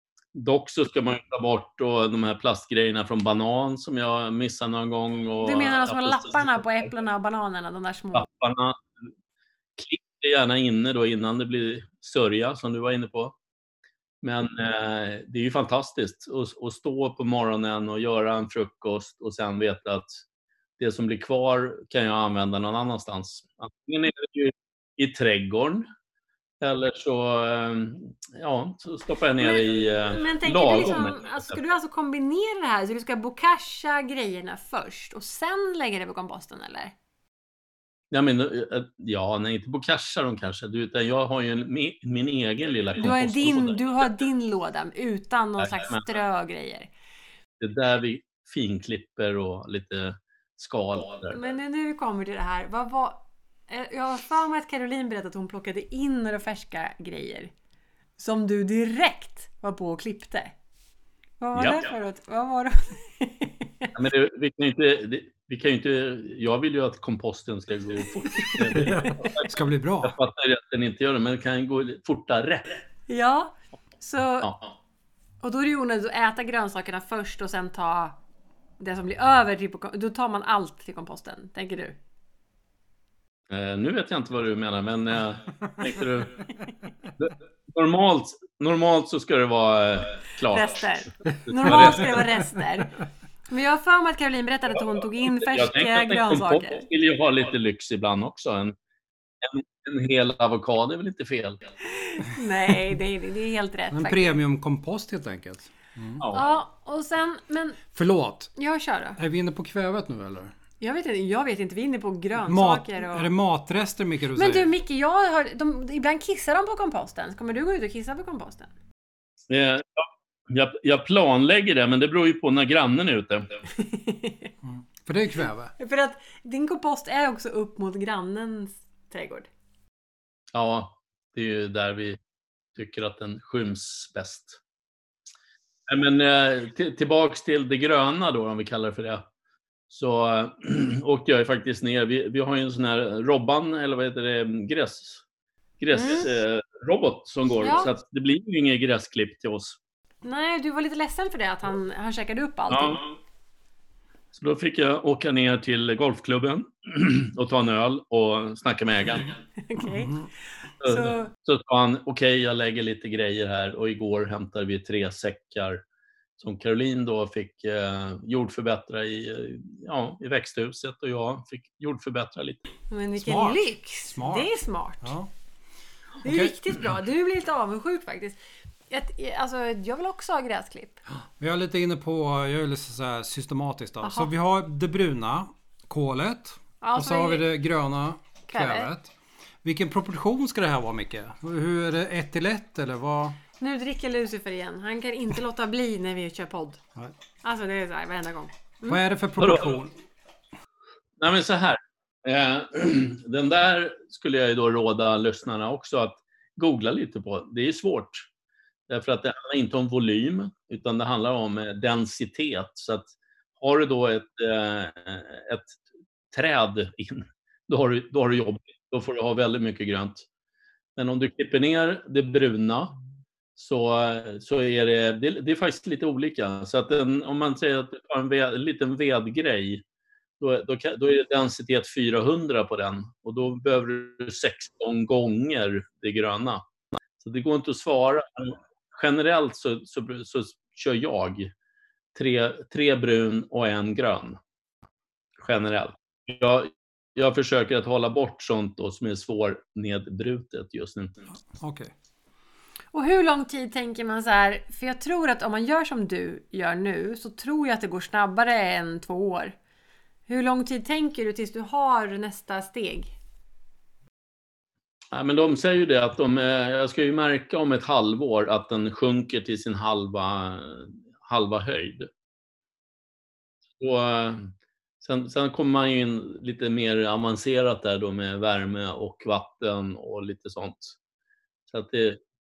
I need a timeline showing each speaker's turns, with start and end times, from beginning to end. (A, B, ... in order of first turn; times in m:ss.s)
0:00.3-0:06.9 A
0:05.4-0:08.3 B
0:08.1-0:08.9 A
0:09.8-0:13.4 A
0:14.2-0:20.2 A
0:20.8-0:25.9 A
0:26.6-0:31.6 A
0:29.4-0:36.9 B
0:38.1-0:44.0 A
0:43.0-0:46.9 B
0:45.6-0:46.1 A
0:47.6-0:51.4 A
0:51.3-0:57.5 B
0:58.2-1:00.5 B
1:01.4-1:03.9 B
1:01.6-1:01.9 A
1:04.0-1:12.8 A
1:08.2-1:09.0 B
1:08.7-1:10.1 C
1:13.1-1:14.5 B
1:15.4-1:18.2 B
1:18.8-1:22.0 B
1:23.5-1:26.4 A
1:27.2-1:32.2 A
1:30.5-1:32.9 B
1:31.6-1:32.3 C
1:33.5-1:36.8 B
1:35.0-1:38.8 A
1:39.4-1:41.6 A
1:41.9-1:44.4 B
1:43.9-1:46.2 C
1:46.2-1:46.6 A
1:46.3-1:47.8 B
1:47.9-1:48.5 C
1:48.6-1:49.2 B
1:49.2-1:50.5 C
1:50.8-1:53.3 B
1:52.4-1:54.7 C
1:54.4-1:58.7 B
1:59.5-2:03.5 A
2:03.8-2:04.5 B
2:04.6-2:05.7 C
2:05.8-2:09.5 B
2:10.5-2:12.2 A
2:12.8-2:14.6 A
2:15.9-2:19.2 A
2:19.9-2:25.2 A
2:25.8-2:29.8 A
2:25.9-2:26.3 B
2:27.6-2:27.9 B
2:30.2-2:33.0 B
2:32.7-2:33.1 A
2:34.3-2:39.4 A
2:39.6-2:40.2 B
2:39.8-2:40.3 C
2:40.8-2:41.3 B
2:40.8-2:45.8 A
2:46.4-2:52.6 A
2:52.9-2:55.1 B
2:53.2-2:54.5 C
2:55.0-2:55.3 C
2:56.2-2:56.5 C
2:56.2-2:58.4 B
2:58.9-3:01.0 B
3:01.2-3:09.1 C
3:04.0-3:04.3 B
3:06.8-3:07.4 B
3:08.5-3:08.9 B
3:09.6-3:13.4 C
3:13.6-3:16.8 B
3:17.4-3:19.0 B
3:18.8-3:19.9 C
3:19.4-3:19.8 A
3:21.2-3:28.3 A
3:28.9-3:35.8 A
3:36.3-3:40.2 A
3:41.0-3:43.0 A
3:43.6-3:49.8 A
3:50.4-3:56.7 A
3:57.2-4:01.5 A
4:02.2-4:04.4 A
4:05.4-4:11.2 A
4:11.5-4:11.9 C
4:12.9-4:19.6 B
4:20.3-4:23.1 B
4:25.1-4:32.1 A
4:33.8-4:41.0 A
4:41.7-4:42.2 A